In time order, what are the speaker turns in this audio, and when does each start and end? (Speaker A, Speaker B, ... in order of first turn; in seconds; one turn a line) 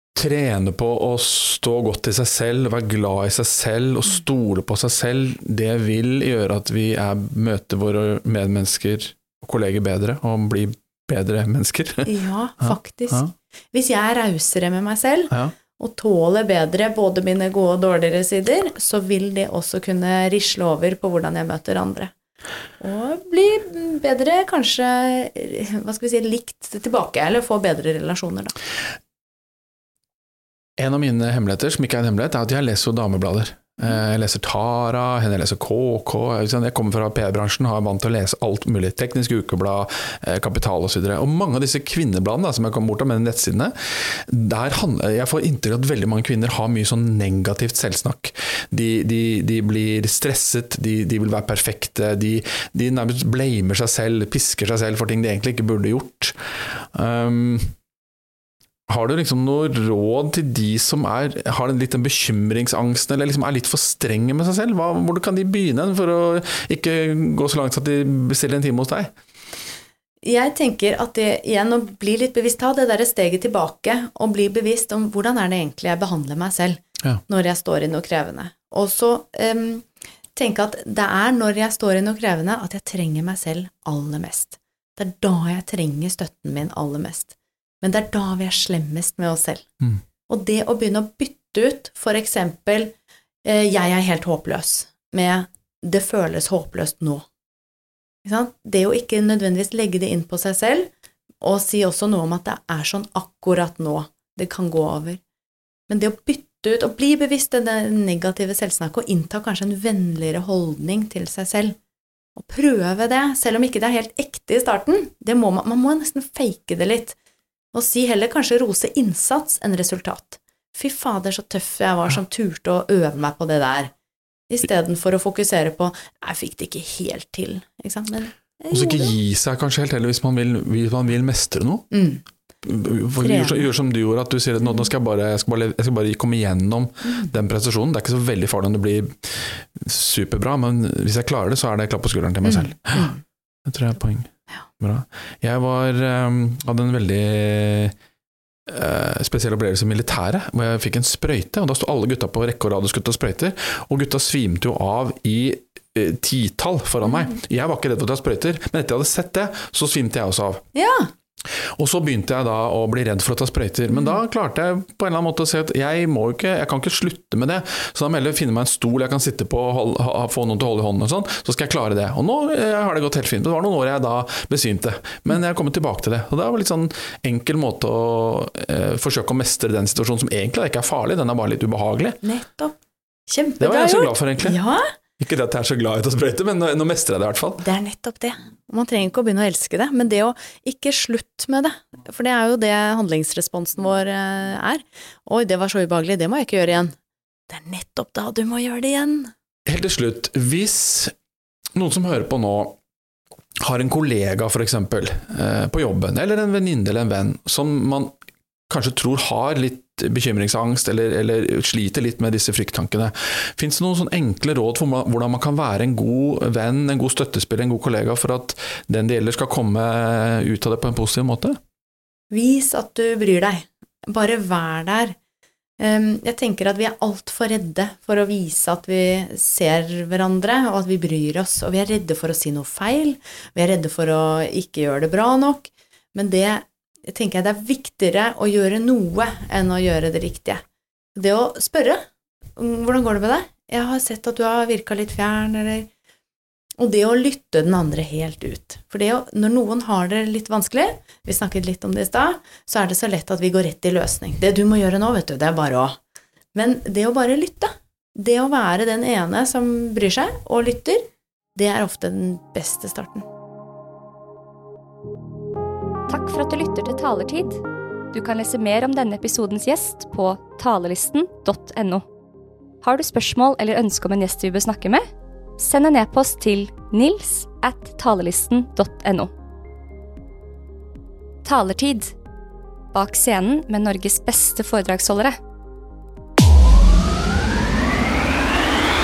Speaker A: 0.1-13.3
Speaker B: 12.1-22.1
Speaker B: 22.8-28.6
Speaker A: 30.8-57.8
Speaker A: 58.9-69.1
Speaker B: 70.2-89.7
Speaker B: 90.3-92.9
Speaker B: 93.5-97.3
Speaker B: 98.2-100.9
Speaker B: 101.4-105.2
Speaker B: 105.9-111.8
Speaker B: 112.4-117.2
Speaker B: 117.7-123.9
Speaker B: 124.5-129.1
Speaker A: 128.7-131.9
Speaker B: 131.9-132.2
Speaker A: 132.6-143.2
Speaker B: 133.2-133.7
Speaker B: 137.1-137.3
Speaker B: 142.4-143.2
Speaker A: 143.7-147.9
Speaker A: 148.7-160.7
Speaker B: 157.1-157.3
Speaker B: 160.7-161.1
Speaker A: 161.5-182.2
Speaker B: 163.9-164.2
Speaker B: 182.2-182.8
Speaker B: 183.3-184.9
Speaker A: 183.6-184.6
Speaker A: 185.2-187.6
Speaker B: 187.6-197.0
Speaker B: 197.5-199.3
Speaker A: 199.7-201.1
Speaker A: 201.8-202.8
Speaker A: 203.6-208.2
Speaker A: 208.7-221.6
Speaker B: 222.3-225.2
Speaker B: 225.8-240.6
Speaker B: 241.2-242.1
Speaker B: 242.6-245.9
Speaker B: 246.8-256.0
Speaker B: 256.5-263.3
Speaker C: 266.1-267.6
Speaker C: 268.1-272.1
Speaker C: 272.8-275.1
Speaker C: 275.6-279.3
Speaker C: 281.4-282.2
Speaker C: 282.9-285.4